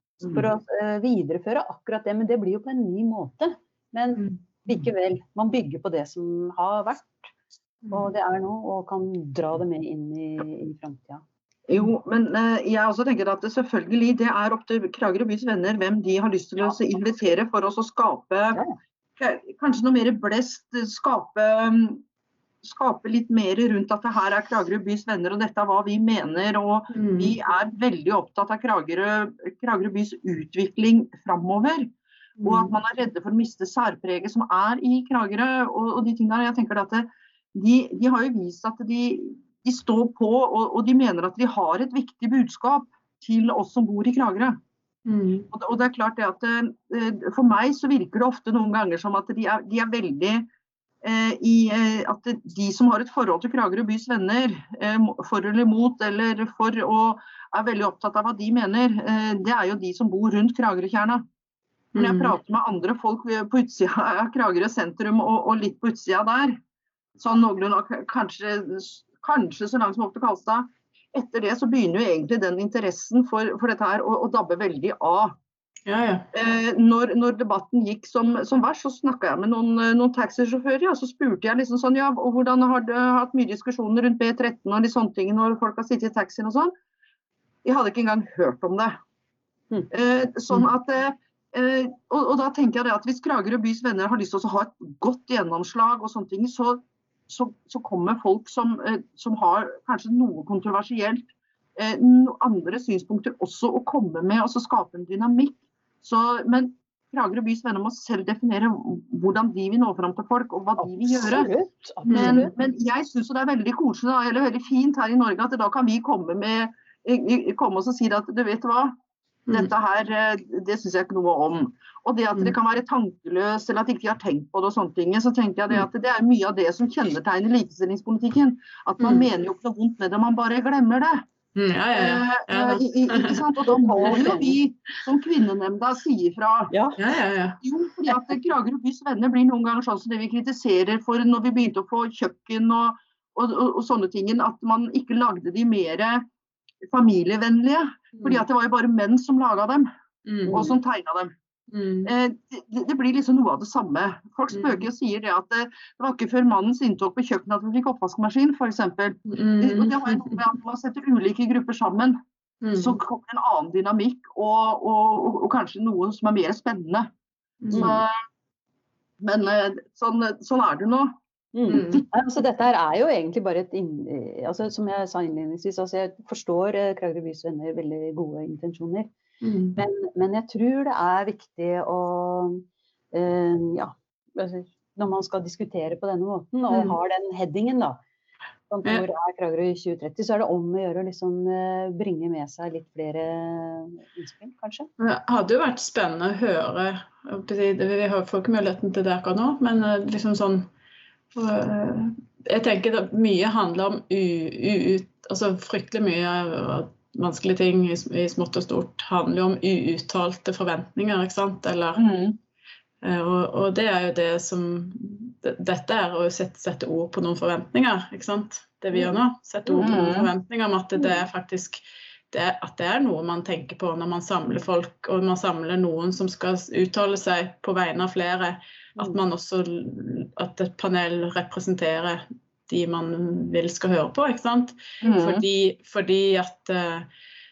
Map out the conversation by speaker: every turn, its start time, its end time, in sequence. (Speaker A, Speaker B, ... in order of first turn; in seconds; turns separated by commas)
Speaker A: 0.3-7.3, Speaker A: 7.9-11.2, Speaker B: 11.7-18.6, Speaker B: 19.2-22.0, Speaker B: 22.6-31.9, Speaker C: 26.9-27.3, Speaker C: 32.4-32.7, Speaker B: 32.4-44.6, Speaker C: 45.0-45.5, Speaker B: 45.5-50.5, Speaker B: 51.0-61.2, Speaker C: 61.9-62.3, Speaker B: 62.0-66.6, Speaker B: 67.2-75.4, Speaker C: 75.9-76.2, Speaker B: 76.3-86.7, Speaker B: 87.6-89.0, Speaker B: 89.9-111.5, Speaker A: 110.8-112.5, Speaker C: 112.1-112.5, Speaker B: 112.1-118.9, Speaker B: 119.5-131.2, Speaker C: 129.0-129.3, Speaker C: 131.5-133.5, Speaker B: 131.9-136.7, Speaker A: 133.7-134.6, Speaker C: 134.0-134.3, Speaker A: 136.7-137.0, Speaker C: 137.0-137.6, Speaker B: 137.6-146.2, Speaker B: 146.9-149.9, Speaker C: 148.2-148.4, Speaker C: 150.2-150.6, Speaker A: 150.4-150.7, Speaker B: 150.5-151.3, Speaker C: 151.7-152.1, Speaker B: 152.0-162.2, Speaker C: 154.5-154.8, Speaker C: 159.3-160.4, Speaker C: 162.6-163.0, Speaker B: 162.8-167.1, Speaker C: 167.6-167.9, Speaker A: 167.7-168.0, Speaker B: 167.7-168.1, Speaker B: 169.2-171.1, Speaker A: 171.5-179.1, Speaker C: 171.7-172.0, Speaker C: 179.4-179.8, Speaker A: 179.8-188.0, Speaker C: 186.7-186.9, Speaker A: 188.7-194.9, Speaker C: 195.0-200.7, Speaker C: 201.3-212.0, Speaker B: 211.9-212.4, Speaker C: 213.0-237.1, Speaker B: 219.8-220.3, Speaker A: 220.9-221.2, Speaker B: 235.0-235.4